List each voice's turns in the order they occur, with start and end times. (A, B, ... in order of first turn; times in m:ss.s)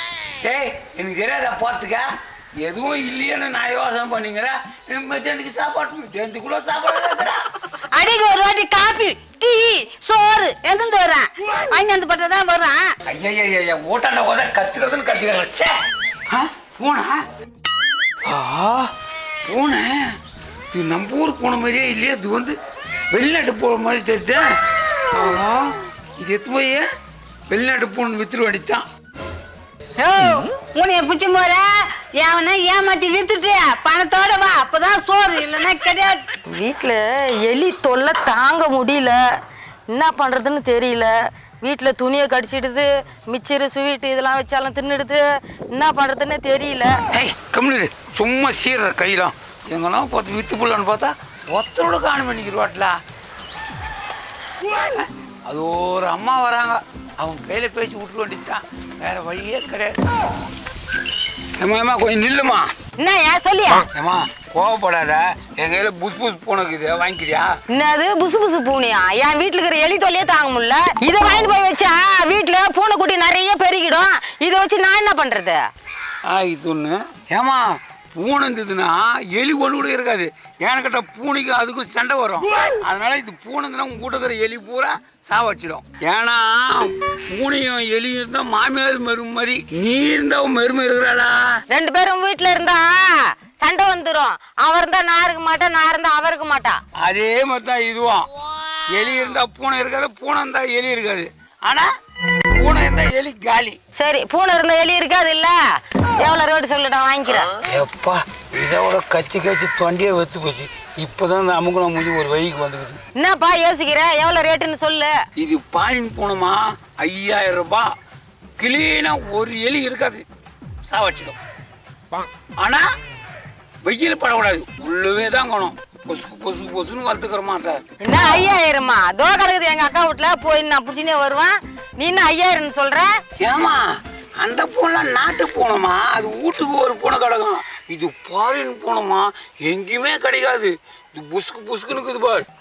0:00.4-0:02.0 A
0:02.6-0:07.4 A
0:07.9-0:12.9 B
0:13.1-0:15.8 A
0:16.3-0:17.2 A
0:18.3-0:18.8 A
0:19.4-0:20.2 A
0:20.7-0:22.6 A
0:23.1-0:24.5 A
0:25.1-0:26.8 A
0:27.5-0:28.8 A
0:30.0-0:36.3 B
0:36.5-0:39.2 C
0:39.9-0:41.1 C
0:41.6-0:46.9 C
0:47.1-0:53.0 A
0:54.6-1:00.0 A
1:01.6-1:02.7 A
1:03.0-1:03.9 C
1:03.8-1:07.5 A
1:07.7-1:15.6 C
1:16.3-1:31.6 A
1:31.7-1:36.8 C
1:37.0-1:38.3 A
1:38.9-1:41.9 A
1:42.5-1:43.8 A
1:44.0-1:45.6 C
1:46.2-1:47.5 C
1:47.6-1:53.0 A
1:53.2-1:55.1 C
1:55.4-1:57.9 A
1:58.6-2:00.2 A
2:00.8-2:01.4 A
2:02.6-2:02.9 A
2:03.8-2:08.4 A
2:08.0-2:13.1 C
2:13.4-2:22.4 A